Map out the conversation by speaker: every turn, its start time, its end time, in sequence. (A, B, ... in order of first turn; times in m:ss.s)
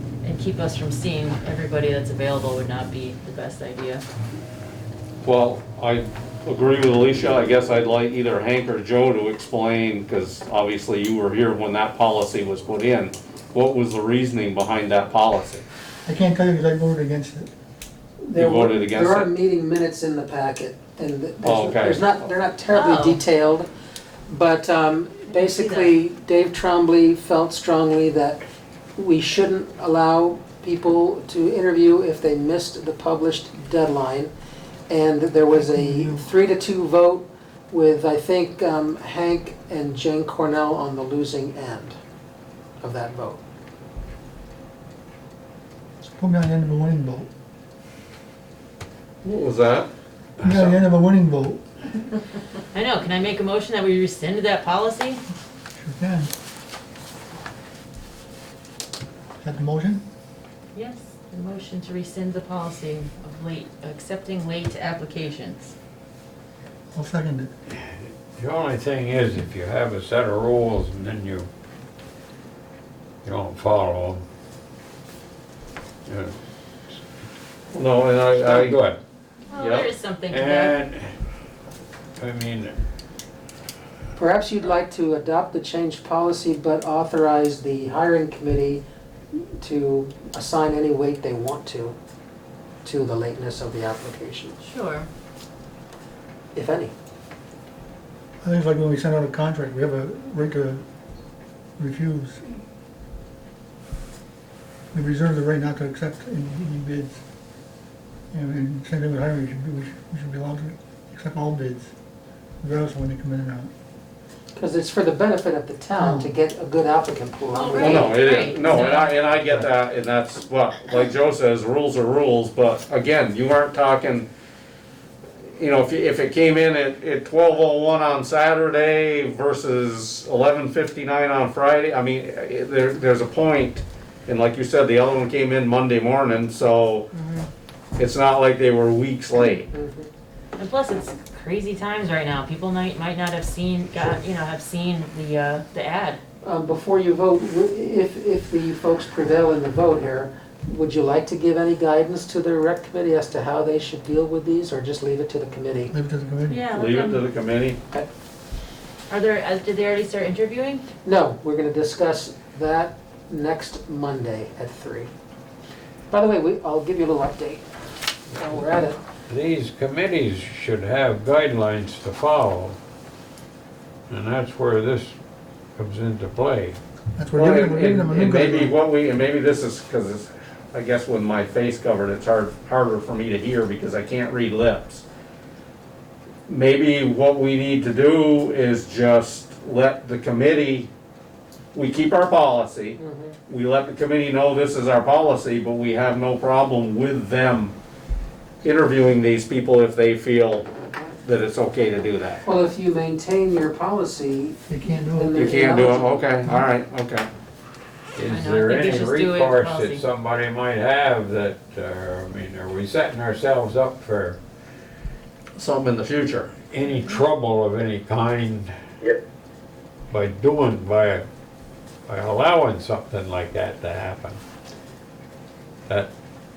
0:00.2-0:04.0 A
0:05.2-0:15.6 B
0:16.0-0:17.5 C
0:18.2-0:23.7 D
0:18.3-0:19.3 B
0:21.4-0:22.3 B
0:22.7-0:23.2 A
0:24.3-0:28.4 D
0:25.3-0:26.0 A
0:29.0-0:34.3 D
0:34.9-0:42.0 D
0:35.5-0:36.2 C
0:42.8-0:43.4 D
0:46.0-0:47.3 C
0:49.2-0:49.9 B
0:50.4-0:51.6 C
0:50.4-0:50.8 B
0:52.7-0:55.2 A
0:55.8-0:56.3 C
0:59.4-1:00.0 C
1:00.7-1:05.7 A
1:06.9-1:07.5 C
1:07.8-1:11.5 E
1:13.2-1:14.2 E
1:16.1-1:16.4 E
1:17.7-1:18.8 B
1:18.3-1:19.0 E
1:19.5-1:20.8 A
1:19.5-1:19.9 B
1:20.3-1:21.1 E
1:22.2-1:22.8 E
1:24.2-1:32.0 D
1:32.8-1:34.6 D
1:34.6-1:35.1 A
1:36.5-1:36.9 D
1:38.4-1:40.8 C
1:41.8-1:42.6 C
1:44.9-1:47.2 C
1:48.3-1:51.9 C
1:52.6-1:53.7 C
1:54.5-1:58.2 D
1:56.0-1:56.3 C
1:57.5-1:59.2 A
1:57.7-2:04.3 B
2:05.6-2:17.1 B
2:17.2-2:17.4 A
2:18.0-2:19.7 B
2:19.7-2:20.1 D
2:20.6-2:26.2 A
2:26.4-2:35.9 D
2:35.9-2:36.6 C
2:36.5-2:37.2 A
2:36.7-2:37.8 B
2:39.1-2:40.8 A
2:41.0-2:45.1 D
2:46.1-2:47.7 D
2:48.3-2:49.0 D
2:48.4-2:48.7 E
2:49.3-2:52.8 E
2:54.1-2:55.2 E
2:55.8-2:56.8 E
2:57.2-2:58.7 C
2:57.4-3:05.0 B
3:06.5-3:10.9 B
3:11.7-3:17.8 B
3:13.0-3:13.4 D
3:18.6-3:20.7 B
3:21.2-3:22.4 B
3:22.4-3:24.6 D
3:24.7-3:25.6 C
3:25.1-3:26.2 D
3:25.3-3:27.3 B
3:28.1-3:34.4 E
3:28.3-3:30.0 A
3:35.6-3:36.5 B
3:36.7-3:38.7 E
3:40.1-3:41.2 E
3:42.1-3:44.4 E